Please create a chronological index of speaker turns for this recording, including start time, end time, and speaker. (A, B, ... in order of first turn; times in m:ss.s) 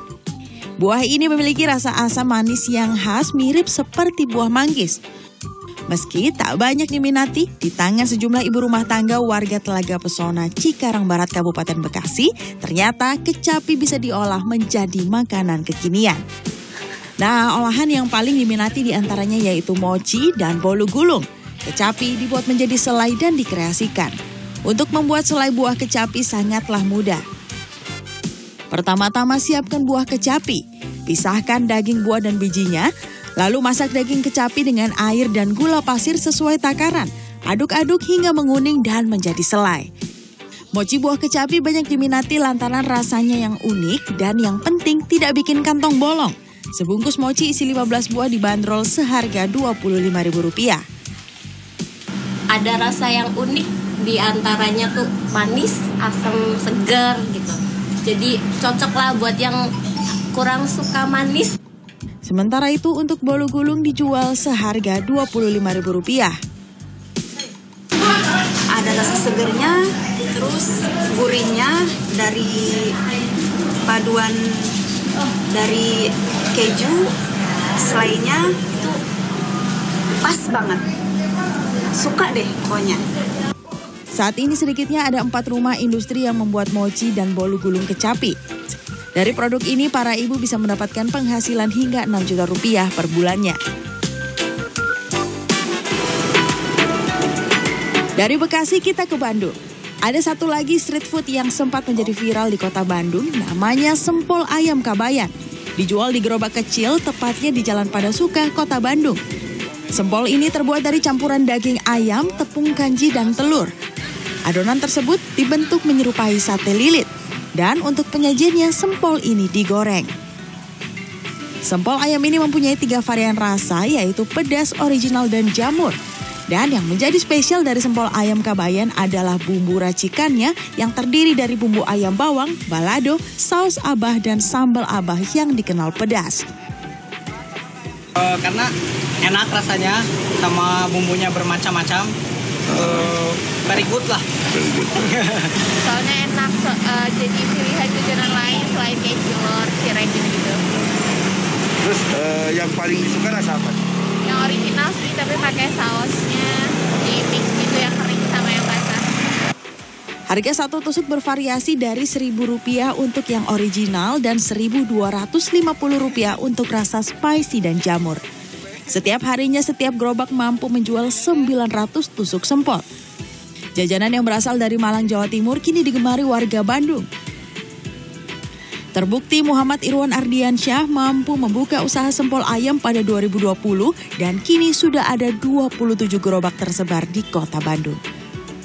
0:00.8-0:05.0 A
0:05.9-0:16.2 A
0:17.2-0:24.1 A
0:24.7-0:27.2 A
0:28.7-0:32.9 A
0:33.4-0:39.8 A
0:40.7-0:50.8 A
0:52.5-0:57.6 B
0:58.1-0:59.6 B
1:00.3-1:01.5 B
1:02.2-1:06.3 A
1:08.7-1:12.9 C
1:13.9-1:14.7 C
1:15.5-1:17.1 C
1:17.8-1:19.0 C
1:20.2-1:20.8 C
1:22.0-1:23.0 C
1:24.2-1:28.3 A
1:29.2-1:33.6 A
1:38.2-1:39.5 A
1:40.0-1:49.2 A
1:49.9-1:53.7 A
1:54.4-2:00.1 A
2:01.6-2:06.0 A
2:06.5-2:16.4 A
2:18.2-2:18.7 D
2:19.2-2:22.1 D
2:22.7-2:24.2 D
2:25.0-2:25.4 D
2:25.8-2:30.6 E
2:31.8-2:33.8 F
2:34.2-2:39.1 E
2:40.3-2:48.2 A
2:48.9-2:52.8 A
2:53.8-2:57.1 A
2:58.9-3:08.0 A